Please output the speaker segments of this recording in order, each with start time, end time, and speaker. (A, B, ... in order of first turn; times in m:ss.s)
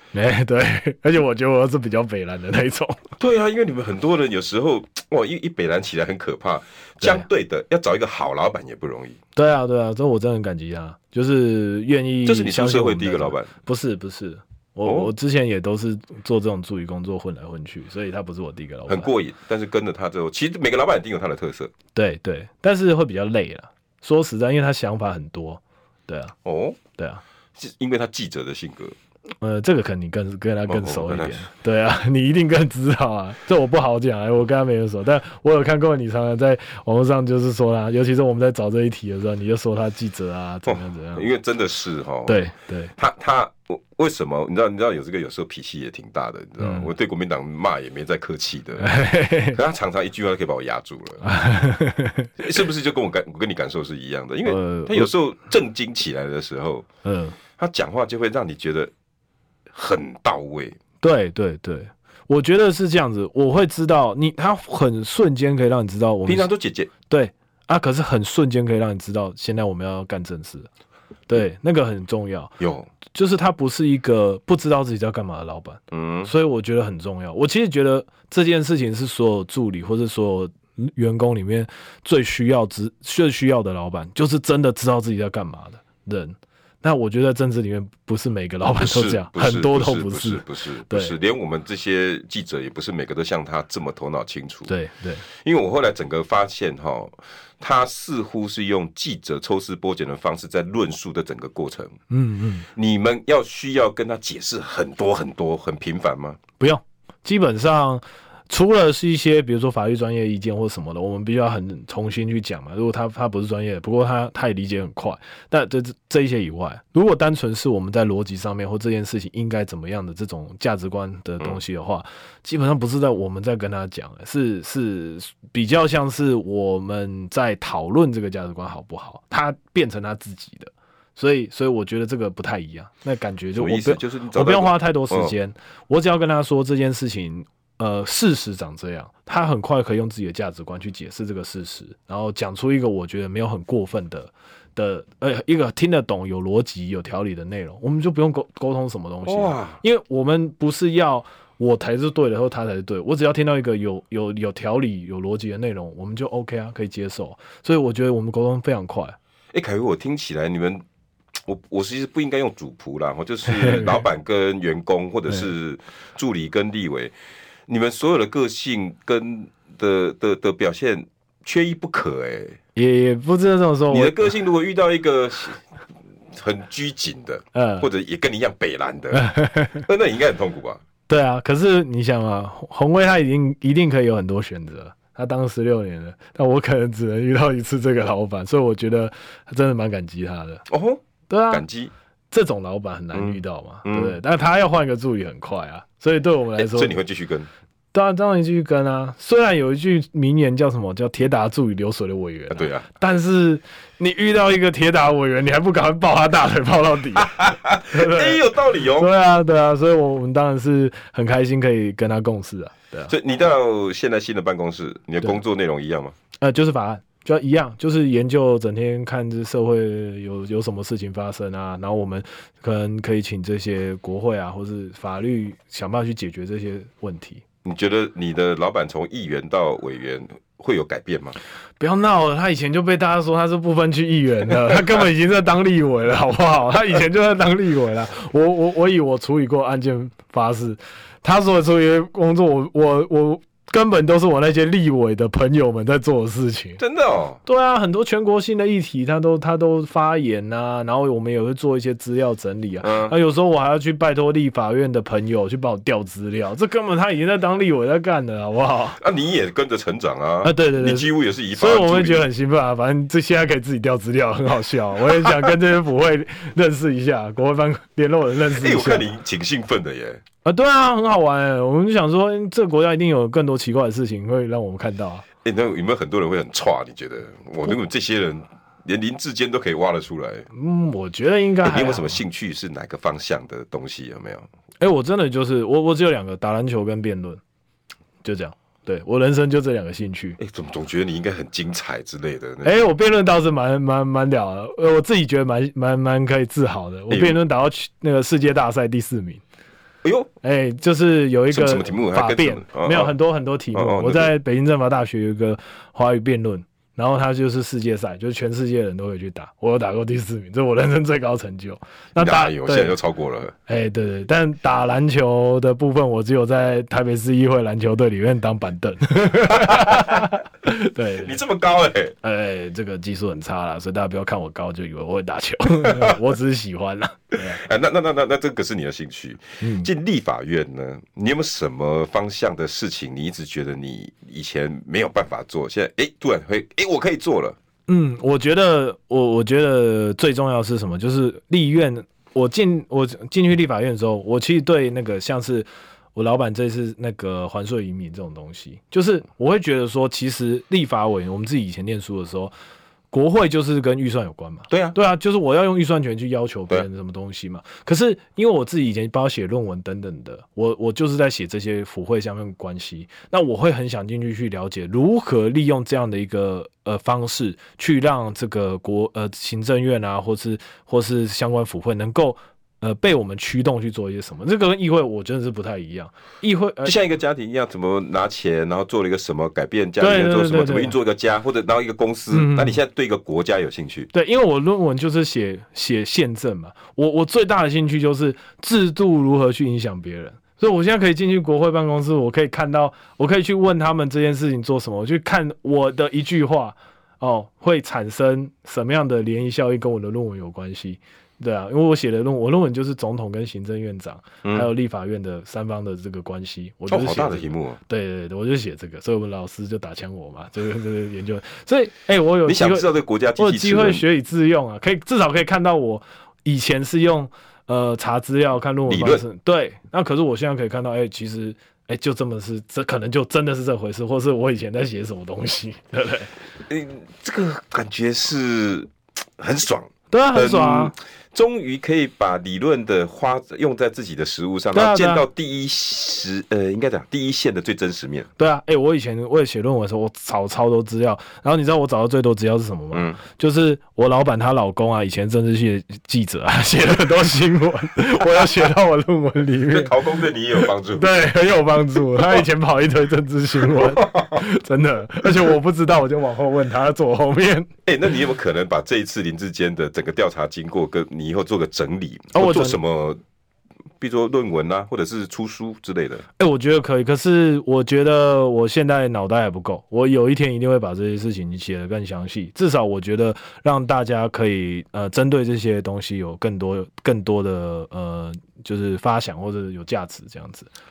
0:00.1-0:03.0 A
0:03.2-0:09.2 B
0:09.3-0:19.1 A
0:12.2-0:13.5 B
0:14.8-0:15.1 B
0:18.9-0:21.7 B
0:21.9-0:26.3 A
0:26.4-0:26.8 B
0:27.0-0:27.2 A
0:27.6-0:29.0 B
0:29.4-0:41.2 A
0:30.7-0:31.4 B
0:40.6-0:42.4 B
0:42.2-0:42.9 A
0:43.0-0:48.9 B
0:48.8-0:49.6 A
0:49.5-0:51.2 B
0:51.2-0:52.3 A
0:52.4-0:56.8 B
0:54.4-0:55.1 A
0:57.0-0:57.4 A
0:57.6-0:58.9 B
0:59.7-1:00.8 B
1:01.0-1:06.5 A
1:06.2-1:06.9 B
1:07.1-1:10.7 A
1:11.3-1:12.6 A
1:12.6-1:12.9 B
1:13.1-1:31.1 A
1:15.9-1:16.3 B
1:28.8-1:34.7 B
1:34.7-1:35.2 A
1:35.2-1:42.0 B
1:42.1-1:42.7 A
1:42.7-1:46.4 B
1:46.6-2:39.2 A
2:13.6-2:15.3 B
2:29.2-2:29.8 B
2:39.5-2:40.8 B
2:41.4-2:47.1 B
2:43.4-2:44.0 A
2:47.7-2:52.6 B
2:52.8-2:54.3 A
2:53.9-2:55.6 B
2:56.3-2:59.3 B
2:57.5-2:57.9 A
2:59.1-2:59.8 A
2:59.8-3:00.8 B
3:01.1-3:10.6 A
3:10.7-3:11.9 B
3:11.3-3:11.6 A
3:12.3-3:17.0 A
3:13.1-3:14.2 B
3:16.6-3:17.5 B
3:17.9-3:33.1 A
3:22.5-3:22.9 B
3:27.2-3:29.1 B
3:33.1-3:36.1 B
3:36.4-3:47.4 A
3:47.6-3:51.4 B
3:51.8-4:06.8 A
4:06.8-4:07.4 B
4:07.4-4:19.0 A
4:12.8-4:13.1 B
4:19.0-4:22.2 B
4:20.4-4:29.1 A
4:25.2-4:25.5 B
4:28.5-4:30.2 B
4:30.4-4:35.2 A
4:35.4-4:40.5 B
4:40.5-4:42.2 A
4:41.6-4:44.5 B
4:44.8-4:47.4 A
4:48.2-4:50.4 A
4:50.4-4:52.7 B
4:52.6-4:59.4 A
4:57.1-4:57.4 B
5:00.0-5:00.3 B
5:00.4-5:13.0 A
5:01.5-5:03.1 B
5:03.7-5:04.3 B
5:12.2-5:13.5 B
5:13.6-5:21.4 A
5:19.6-5:20.3 B
5:21.2-5:22.2 B
5:22.2-5:27.6 A
5:25.8-5:26.2 B
5:27.4-5:37.6 B
5:29.6-5:29.9 A
5:37.9-5:52.5 A
5:53.1-6:17.0 A
5:54.7-5:55.0 B
6:16.8-6:24.1 B
6:20.0-6:20.9 A
6:22.3-6:22.8 A
6:24.1-6:52.8 A
6:46.9-6:47.8 B
6:52.4-6:54.0 B
6:53.4-7:06.3 A
6:58.9-6:59.2 B
7:06.7-7:18.3 B
7:10.1-7:10.9 A
7:14.7-7:15.2 A
7:18.4-7:30.0 A
7:22.9-7:23.2 B
7:29.7-7:31.2 B
7:30.6-7:37.7 A
7:33.6-7:34.4 B
7:37.8-7:43.2 B
7:42.3-7:42.8 A
7:44.0-7:46.2 B
7:46.4-8:00.7 A